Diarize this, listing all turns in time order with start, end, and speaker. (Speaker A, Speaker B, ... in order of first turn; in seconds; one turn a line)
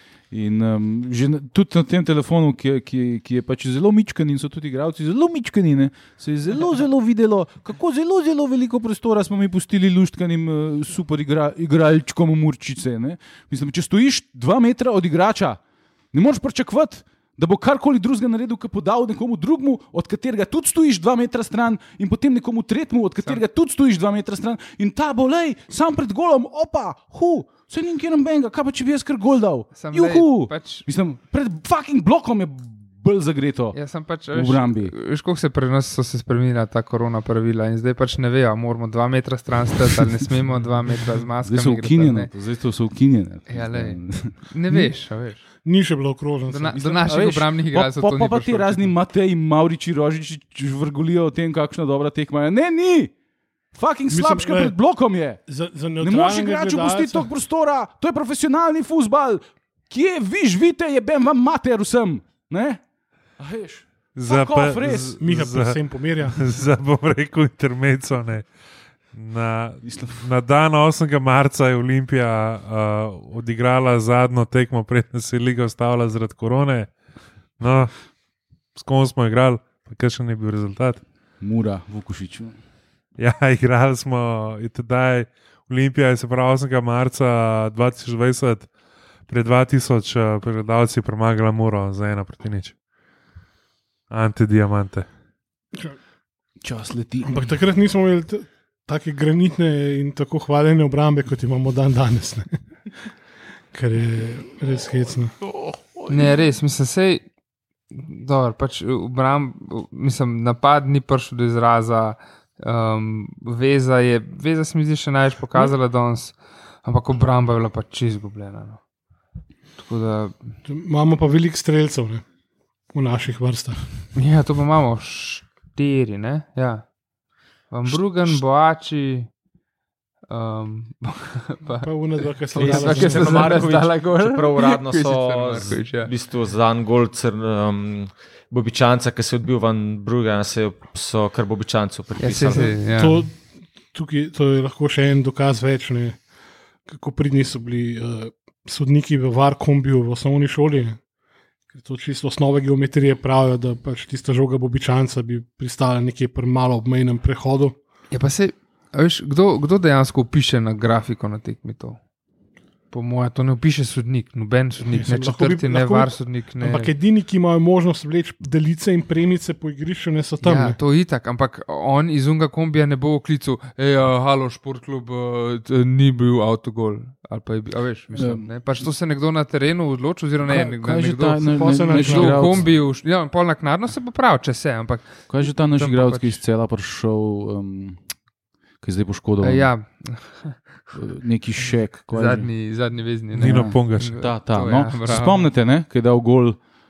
Speaker A: 0.3-15.6
Speaker A: 16.1-33.8
Speaker B: 29.7-30.9
Speaker B: 33.7-42.3
Speaker A: 34.3-34.9
Speaker A: 41.4-44.9
Speaker B: 43.5-45.4
Speaker C: 45.6-47.0
Speaker B: 46.5-49.0
Speaker A: 46.9-53.1
Speaker A: 53.8-55.4
Speaker C: 54.1-54.8
Speaker C: 55.5-57.3
Speaker A: 56.0-62.8
Speaker A: 63.4-65.2
Speaker D: 64.2-68.5
Speaker C: 65.2-66.4
Speaker D: 69.1-76.9
Speaker A: 69.8-70.2
Speaker D: 77.6-77.9
Speaker D: 78.8-81.0
Speaker A: 81.4-82.6
Speaker D: 83.2-88.7
Speaker D: 89.3-92.8
Speaker D: 94.1-95.1
Speaker A: 96.6-97.5
Speaker C: 97.2-102.5
Speaker C: 103.7-105.3
Speaker A: 105.6-105.9
Speaker B: 106.1-107.2
Speaker B: 107.9-118.8
Speaker B: 119.8-120.5
Speaker C: 120.7-122.2
Speaker C: 122.9-123.8
Speaker B: 124.2-126.8
Speaker B: 127.7-129.3
Speaker B: 130.3-136.1
Speaker C: 131.8-133.6
Speaker E: 132.6-142.8
Speaker B: 142.2-143.3
Speaker C: 142.5-143.3
Speaker C: 143.9-146.2
Speaker C: 146.9-151.0
Speaker C: 151.7-157.8
Speaker B: 158.1-162.0
Speaker B: 162.9-166.9
Speaker C: 164.8-170.8
Speaker B: 170.4-186.4
Speaker A: 178.1-178.5
Speaker A: 180.4-182.7
Speaker C: 181.5-182.5
Speaker A: 185.3-188.0
Speaker A: 188.8-189.7
Speaker B: 189.4-190.6
Speaker A: 190.9-192.5
Speaker B: 192.1-195.5
Speaker D: 193.3-194.2
Speaker A: 193.4-196.6